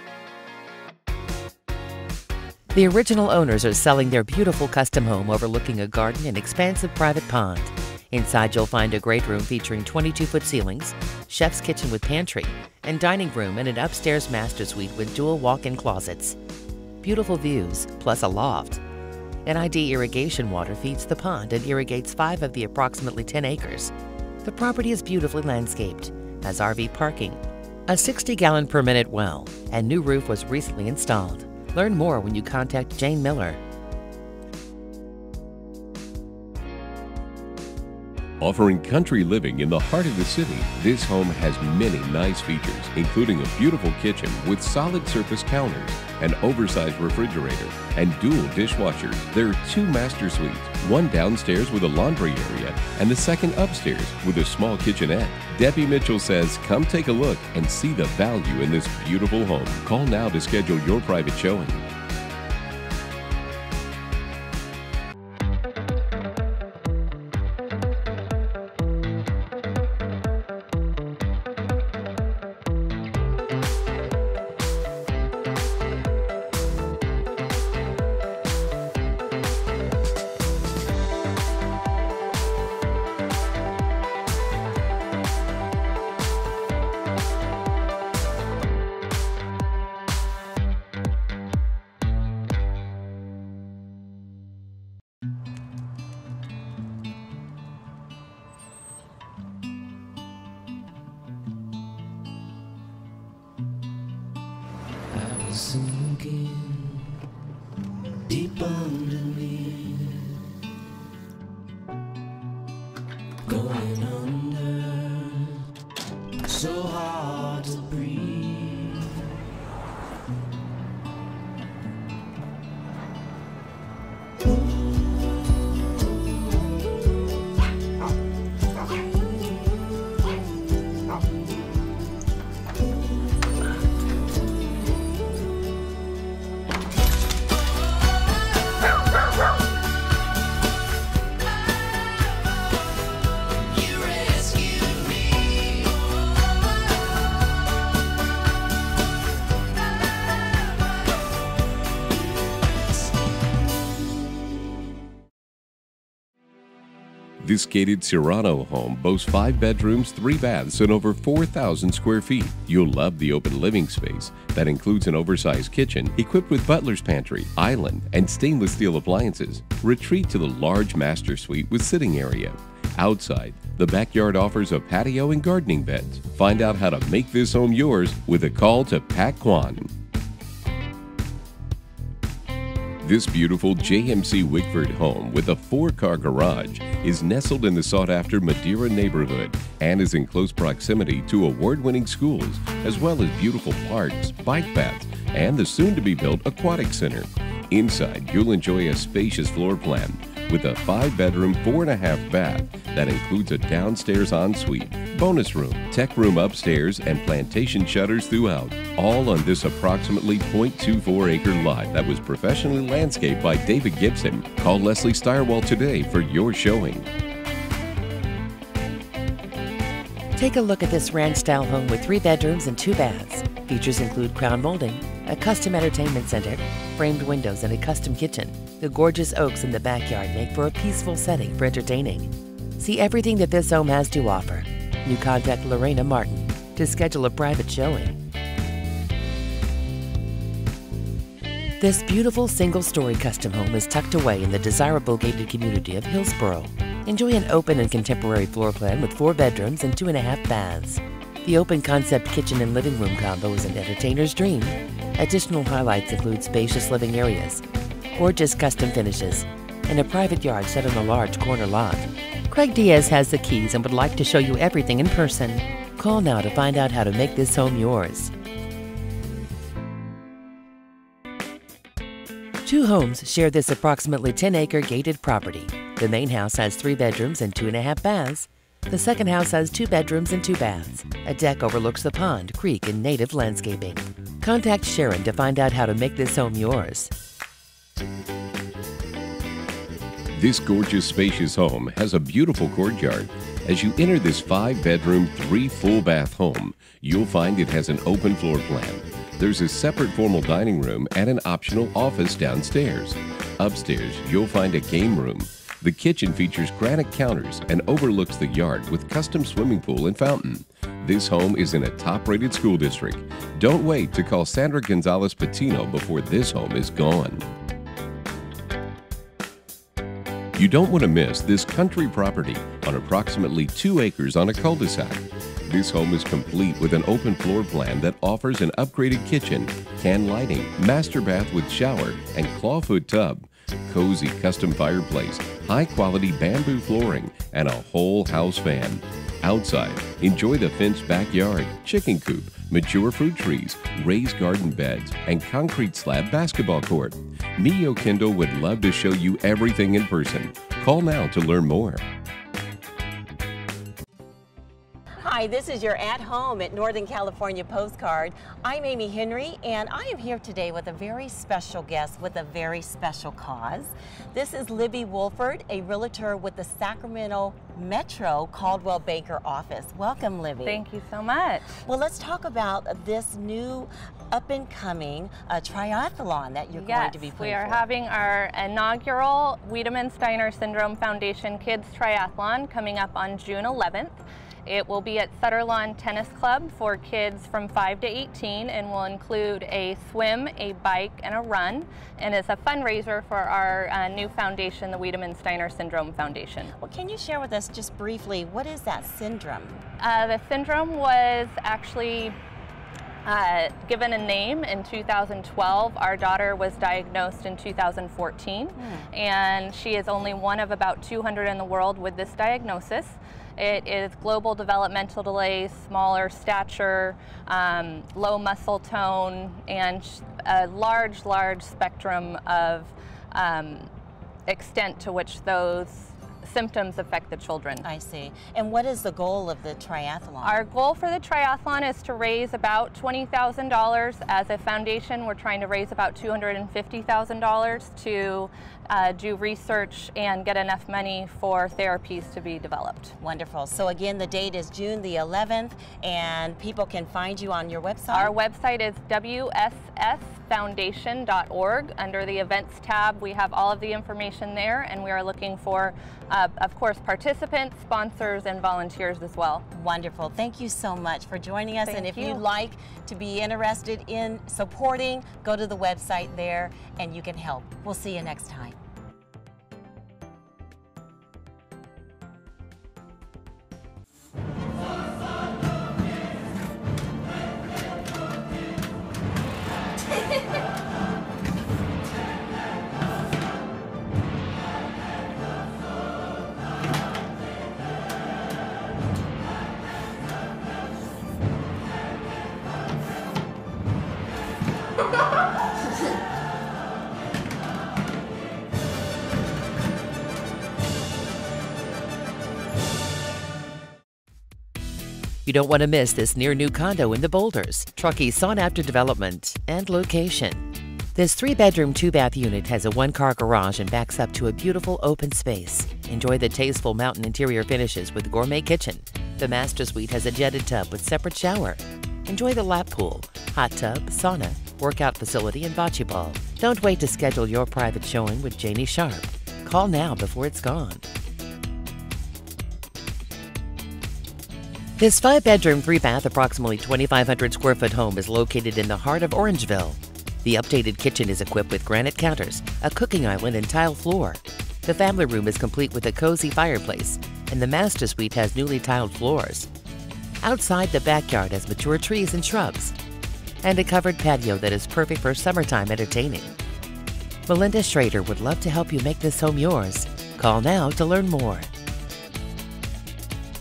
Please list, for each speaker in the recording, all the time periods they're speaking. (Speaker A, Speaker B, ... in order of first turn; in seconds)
Speaker A: 2.7-16.4, 17.0-18.8, 19.4-23.9, 24.4-33.6, 220.4-238.2, 241.8-268.3, 272.6-287.1, 505.4-510.6, 511.1-531.0, 535.0-549.7, 550.4-553.0, 553.6-556.5, 557.5-561.7
Speaker B: 38.4-61.9, 157.4-179.9, 183.0-217.1, 290.3-317.5, 320.5-352.0
Speaker C: 105.1-107.1, 108.2-110.2, 113.5-115.6, 116.5-119.1, 144.1-145.0
Speaker D: 355.2-370.8, 371.9-377.8, 396.8-399.8, 408.8-409.1, 427.8-430.6, 443.2-448.3, 459.7-468.8
Speaker E: 370.6-371.8, 376.7-396.7, 400.0-402.4, 403.2-423.9, 424.5-427.9, 430.4-443.1, 448.1-459.6, 461.9-462.4